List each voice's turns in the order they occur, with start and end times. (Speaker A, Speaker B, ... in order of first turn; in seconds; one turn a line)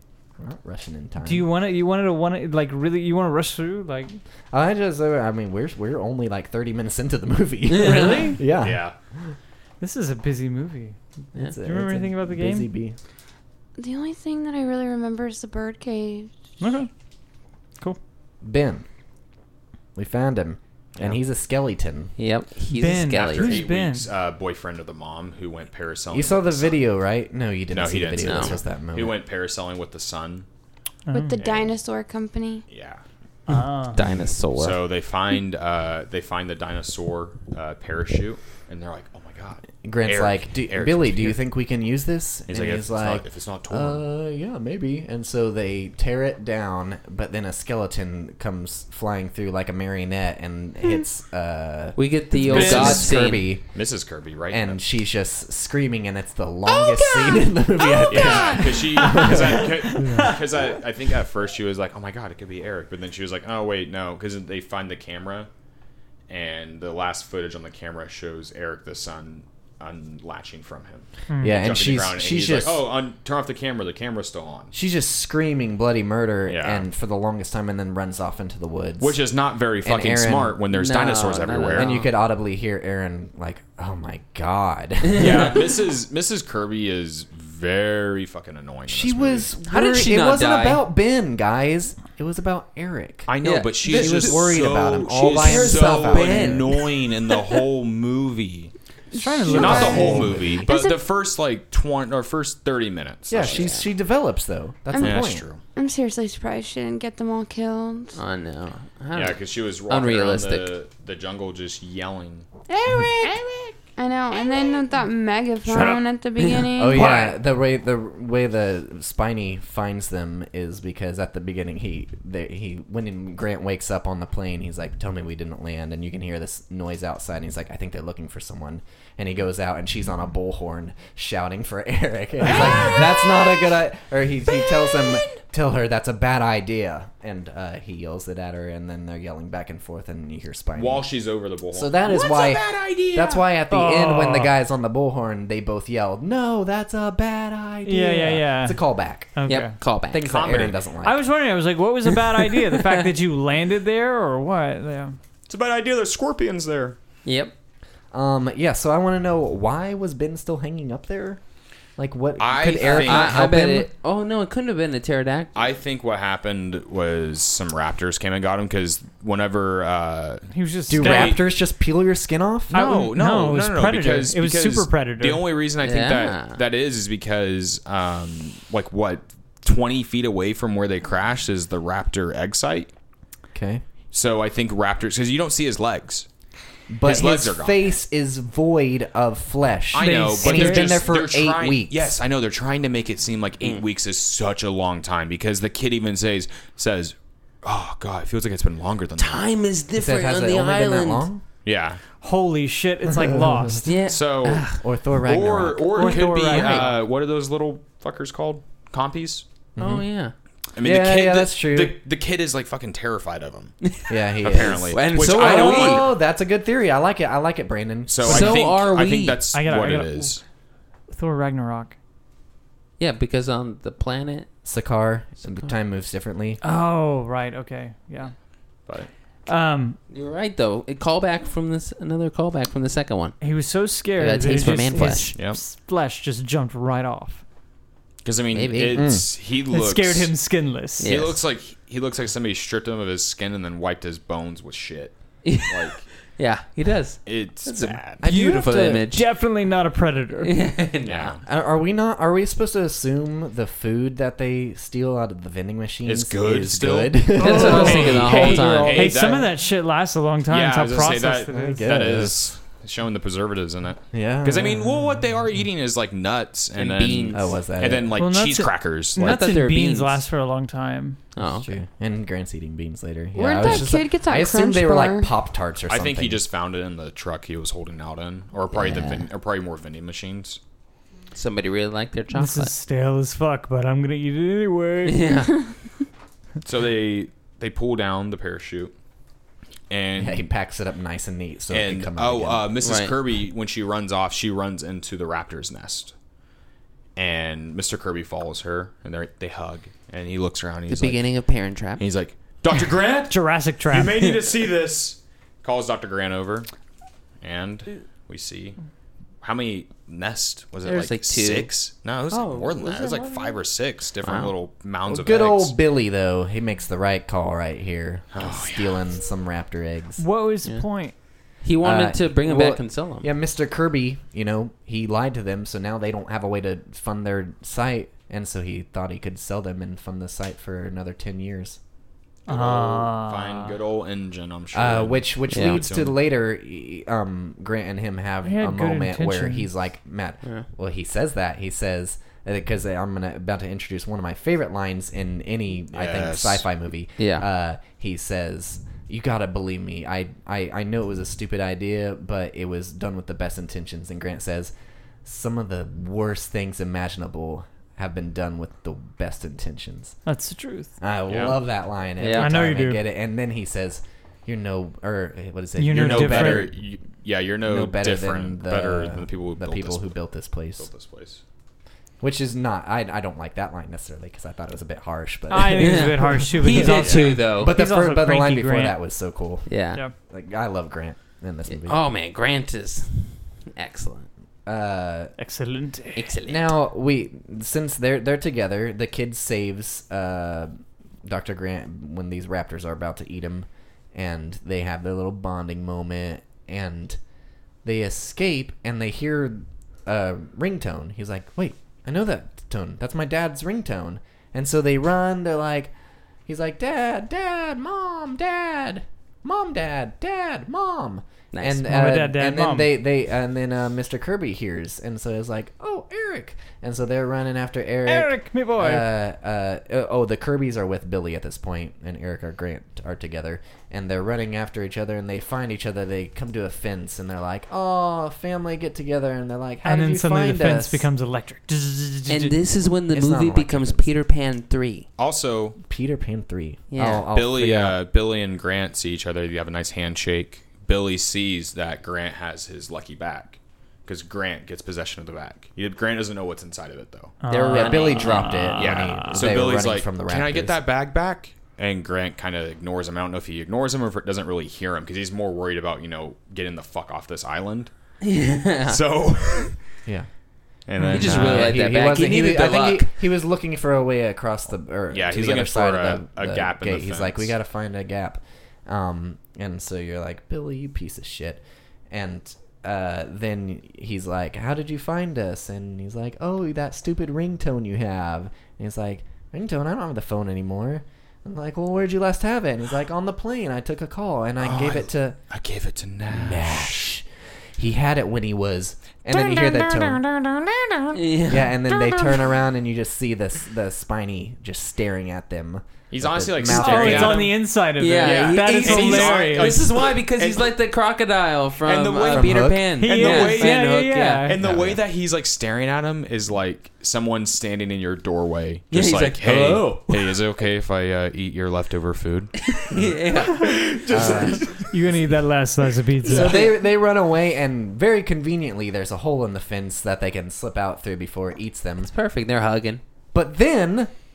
Speaker A: 0.4-1.5
Speaker B: 1.2-4.2
Speaker A: 4.5-9.3
Speaker C: 7.7-8.3
Speaker B: 7.8-8.4
Speaker D: 8.6-8.9
Speaker B: 9.8-11.0
Speaker A: 11.3-13.0
Speaker B: 11.6-12.7
Speaker E: 13.8-16.3
Speaker B: 16.6-16.9
Speaker A: 18.4-18.9
Speaker A: 19.9-22.1
Speaker C: 22.2-23.6
Speaker B: 22.7-24.1
Speaker D: 23.1-26.8
Speaker A: 26.1-29.2
Speaker D: 27.7-30.5
Speaker C: 28.2-28.6
Speaker B: 31.1-31.4
Speaker E: 31.1-32.6
Speaker D: 31.4-31.8
Speaker D: 32.7-33.0
Speaker B: 33.5-34.0
Speaker C: 33.9-34.8
Speaker D: 34.5-41.4
Speaker A: 39.8-53.8
Speaker D: 42.5-44.0
Speaker C: 52.0-53.5
Speaker D: 52.5-53.1
Speaker D: 53.7-54.8
Speaker A: 54.5-59.9
Speaker E: 56.7-59.3
Speaker D: 58.1-65.5
Speaker B: 59.0-60.4
Speaker D: 66.3-74.7
Speaker B: 71.3-71.6
Speaker A: 71.4-72.8
Speaker A: 74.7-79.2
Speaker D: 76.5-76.9
Speaker D: 79.0-82.0
Speaker A: 79.8-80.6
Speaker C: 80.7-82.1
Speaker A: 81.7-85.7
Speaker C: 85.1-85.4
Speaker D: 85.1-89.5
Speaker A: 88.9-93.3
Speaker C: 89.7-90.9
Speaker D: 93.3-98.7
Speaker C: 93.4-94.5
Speaker A: 93.8-96.7
Speaker C: 95.2-97.4
Speaker B: 99.1-100.3
Speaker E: 99.1-101.0
Speaker A: 99.5-100.7
Speaker D: 99.5-103.7
Speaker A: 103.3-105.5
Speaker C: 103.4-103.9
Speaker E: 104.9-108.2
Speaker D: 105.0-105.6
Speaker C: 108.1-110.7
Speaker D: 109.1-112.5
Speaker C: 112.8-113.7
Speaker E: 114.0-117.2
Speaker C: 115.7-116.7
Speaker B: 115.7-116.0
Speaker A: 116.8-141.1
Speaker B: 117.0-117.3
Speaker D: 132.4-133.5
Speaker D: 134.6-135.1
Speaker D: 140.7-143.4
Speaker A: 141.7-149.3
Speaker B: 143.7-144.6
Speaker B: 147.8-148.8
Speaker B: 149.3-149.7
Speaker C: 149.5-150.4
Speaker A: 150.1-151.2
Speaker D: 150.2-150.8
Speaker B: 151.0-155.2
Speaker D: 155.5-157.0
Speaker C: 157.2-157.5
Speaker A: 158.1-161.4
Speaker A: 162.0-163.9
Speaker D: 162.4-163.4
Speaker C: 162.7-165.6
Speaker D: 165.6-171.4
Speaker B: 170.5-171.4
Speaker A: 170.9-172.8
Speaker D: 172.7-182.9
Speaker B: 172.7-175.4
Speaker C: 175.8-176.6
Speaker A: 183.5-183.8
Speaker D: 184.1-186.3
Speaker A: 186.9-192.2
Speaker D: 187.0-187.8
Speaker D: 189.9-199.4
Speaker B: 190.0-191.1
Speaker C: 199.2-201.3
Speaker A: 199.9-201.4
Speaker D: 201.6-202.0
Speaker B: 202.2-203.9
Speaker A: 203.2-203.8
Speaker C: 203.8-204.8
Speaker D: 204.1-209.4
Speaker A: 204.8-206.1
Speaker B: 205.9-206.9
Speaker C: 206.0-206.9
Speaker A: 209.8-210.1
Speaker C: 209.8-210.3
Speaker D: 210.8-213.7
Speaker A: 210.8-212.0
Speaker C: 213.8-216.1
Speaker A: 214.1-218.6
Speaker D: 214.4-216.1
Speaker D: 218.1-220.4
Speaker C: 218.2-219.4
Speaker B: 219.5-220.4
Speaker B: 221.1-221.9
Speaker C: 223.0-224.5
Speaker A: 224.6-226.6
Speaker C: 225.4-225.7
Speaker B: 226.6-228.3
Speaker B: 229.5-230.0
Speaker C: 230.1-233.4
Speaker B: 233.4-237.4
Speaker C: 234.2-235.3
Speaker D: 235.3-235.6
Speaker D: 238.2-240.3
Speaker C: 238.5-239.1
Speaker A: 238.9-239.3
Speaker B: 239.7-241.1
Speaker C: 241.0-241.4
Speaker D: 241.0-246.1
Speaker C: 245.4-249.3
Speaker D: 247.3-248.2
Speaker A: 248.2-249.1
Speaker B: 248.3-250.6
Speaker C: 250.4-251.4
Speaker D: 251.0-251.4
Speaker A: 251.4-259.1
Speaker D: 256.1-259.5
Speaker C: 257.4-259.2
Speaker B: 257.4-261.9
Speaker D: 260.5-269.5
Speaker A: 261.5-262.6
Speaker A: 264.1-265.1
Speaker C: 266.8-267.4
Speaker A: 267.3-268.1
Speaker B: 268.2-271.2
Speaker C: 269.2-270.2
Speaker C: 271.4-271.7
Speaker A: 271.4-276.4
Speaker E: 273.4-275.3
Speaker C: 273.6-273.9
Speaker D: 275.9-280.6
Speaker C: 278.7-279.2
Speaker C: 281.4-282.7
Speaker B: 282.3-285.5
Speaker C: 285.1-285.8
Speaker D: 286.6-288.9
Speaker D: 289.9-290.4
Speaker A: 290.2-292.6
Speaker D: 291.7-296.1
Speaker C: 292.8-293.2
Speaker D: 297.2-301.3
Speaker C: 300.9-302.0
Speaker D: 302.0-306.7
Speaker B: 303.3-304.4
Speaker D: 307.4-308.8
Speaker D: 309.4-315.8
Speaker C: 310.8-311.7
Speaker C: 312.3-313.5
Speaker C: 314.2-314.5
Speaker A: 315.1-320.2
Speaker D: 318.3-319.0
Speaker B: 320.2-321.1
Speaker C: 321.6-323.3
Speaker A: 321.8-331.8
Speaker B: 332.5-333.8
Speaker D: 332.5-336.2
Speaker A: 334.7-354.7
Speaker C: 335.5-335.9
Speaker B: 338.4-339.7
Speaker D: 345.9-346.7
Speaker C: 347.2-347.5
Speaker A: 355.2-360.2
Speaker B: 360.3-360.9
Speaker A: 361.0-366.8
Speaker D: 361.3-361.6
Speaker C: 362.2-362.5
Speaker B: 362.4-363.0
Speaker B: 365.8-366.7
Speaker D: 365.9-370.1
Speaker A: 367.7-370.9
Speaker D: 370.8-371.4
Speaker A: 372.2-382.0
Speaker B: 375.5-379.0
Speaker C: 375.8-377.8
Speaker D: 376.8-377.4
Speaker C: 379.7-380.0
Speaker C: 381.7-384.3
Speaker A: 384.7-385.3
Speaker B: 385.4-386.3
Speaker C: 386.2-386.7
Speaker A: 386.5-397.2
Speaker A: 397.8-405.9
Speaker A: 406.5-431.1
Speaker C: 411.5-411.8
Speaker B: 411.8-412.9
Speaker B: 418.1-419.1
Speaker B: 429.8-432.6
Speaker C: 432.3-435.1
Speaker A: 433.1-434.1
Speaker D: 435.2-435.8
Speaker A: 435.8-438.0
Speaker C: 436.9-437.3
Speaker D: 437.2-447.4
Speaker B: 447.4-449.5
Speaker C: 447.5-448.7
Speaker A: 447.5-450.8
Speaker D: 448.8-457.9
Speaker C: 458.2-459.0
Speaker D: 458.9-459.8
Speaker D: 460.9-461.8
Speaker B: 461.0-461.3
Speaker C: 461.1-463.1
Speaker A: 461.1-485.4
Speaker D: 465.1-467.5
Speaker D: 484.6-487.1
Speaker A: 486.3-487.2
Speaker A: 487.8-490.2
Speaker B: 489.3-489.7
Speaker B: 490.3-491.1
Speaker C: 491.1-491.8
Speaker A: 491.5-497.5
Speaker D: 496.1-497.7
Speaker B: 496.7-499.8
Speaker C: 498.0-505.0
Speaker D: 498.2-500.7
Speaker D: 501.8-515.0
Speaker A: 502.3-502.9
Speaker B: 503.0-504.6
Speaker C: 508.9-510.4
Speaker C: 512.7-514.5
Speaker A: 514.1-514.6
Speaker B: 514.7-516.6
Speaker A: 516.2-522.1
Speaker C: 516.3-516.8
Speaker C: 522.0-523.0
Speaker A: 523.3-524.1